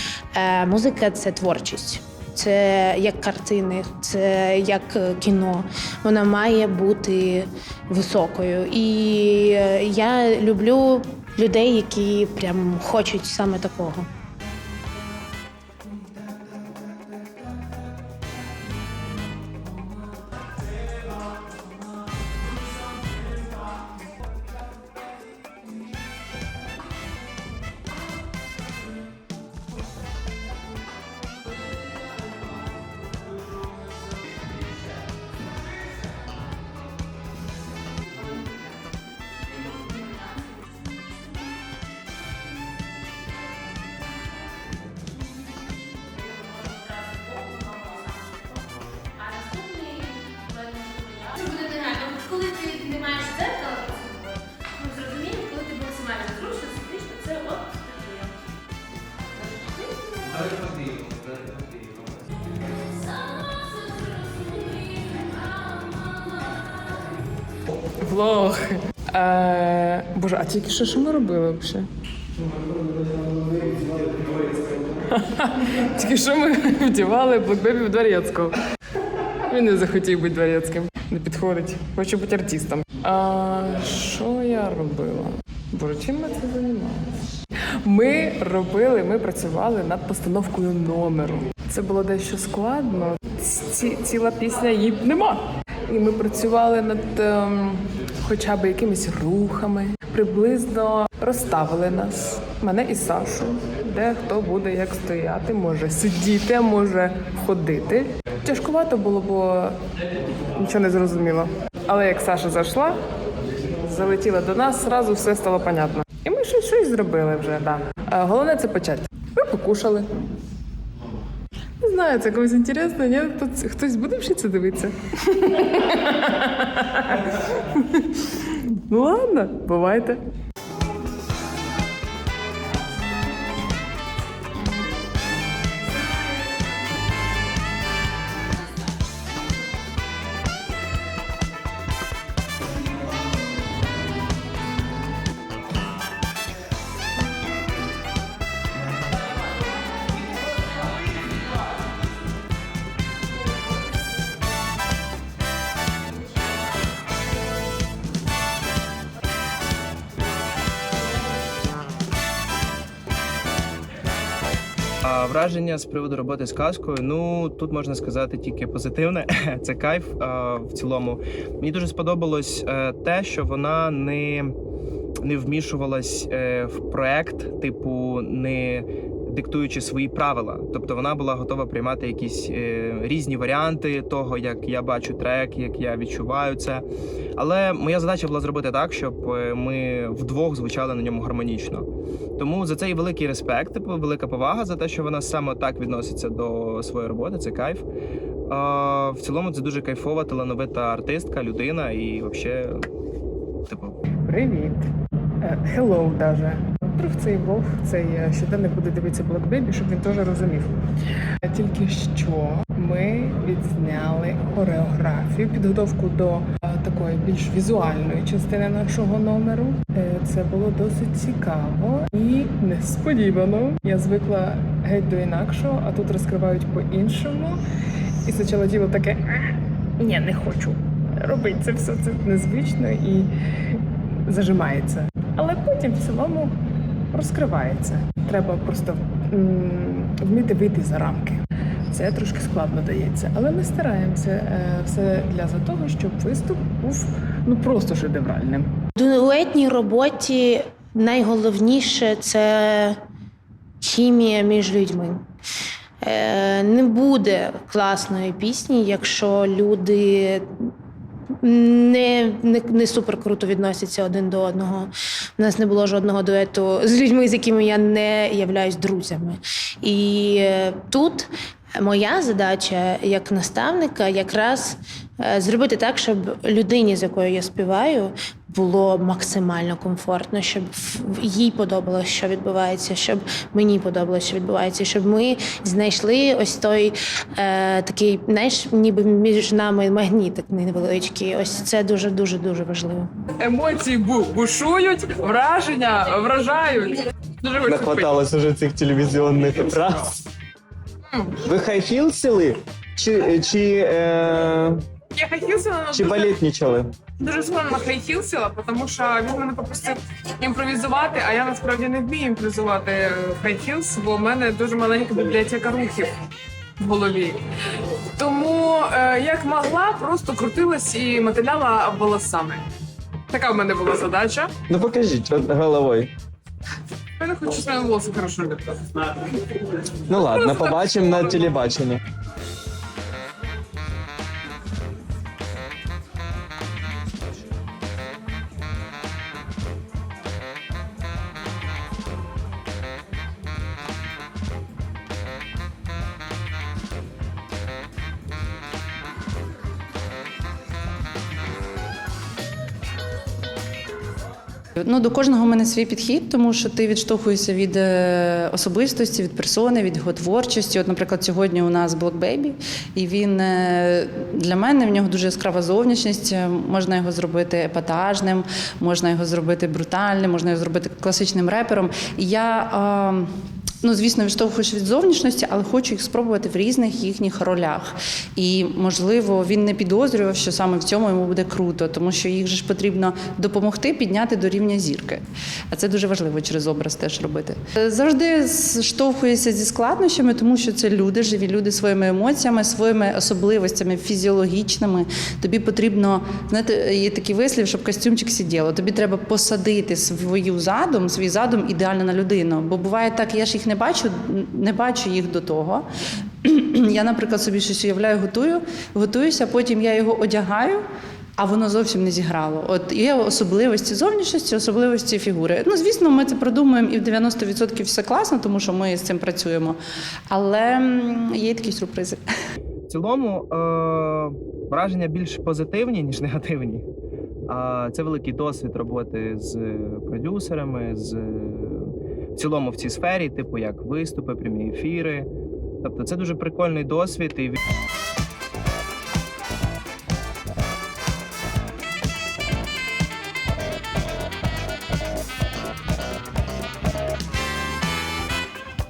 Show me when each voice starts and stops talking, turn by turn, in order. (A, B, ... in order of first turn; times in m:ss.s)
0:00.3-0:14.1 A
0:46.7-0:48.3 A
0:49.2-0:54.2 A
0:54.8-0:58.0 A
1:08.0-1:11.9 B
1:15.1-1:18.6 B
1:19.5-1:27.0 B
1:27.8-1:49.8 B
1:50.6-1:53.0 B
1:53.8-2:00.1 B
2:01.8-2:10.2 B
2:45.0-2:54.5 C
2:55.2-3:06.8 C
3:07.4-3:11.9 C
3:12.4-3:17.8 C
3:18.5-3:22.8 C
3:23.7-3:24.0 C
3:24.2-3:24.9 B
3:25.4-3:30.8 B
3:31.4-3:47.6 B
3:48.2-3:49.2 B
3:50.0-3:56.6 B
3:57.1-4:08.7 B
4:09.0-4:13.0 A
4:13.8-4:15.2 A
4:16.0-4:20.7 A
4:21.4-4:53.1 A
4:53.4-4:58.1 B
4:57.6-5:00.1 D
5:01.4-5:04.8 D
5:05.2-5:06.3 B
5:05.9-5:06.9 D
5:07.2-5:16.1 B
5:16.8-5:17.4 B
5:18.2-5:22.6 B
5:23.3-5:24.5 B
5:24.7-5:26.1 D
5:27.2-5:28.8 B
5:30.1-5:32.0 D
5:30.2-5:31.5 B
5:54.8-6:45.9 E
6:46.4-6:50.9 E
6:51.4-6:59.8 E
7:00.3-7:02.2 E
7:02.9-7:06.9 C
7:07.5-7:15.3 C
7:15.8-7:17.6 C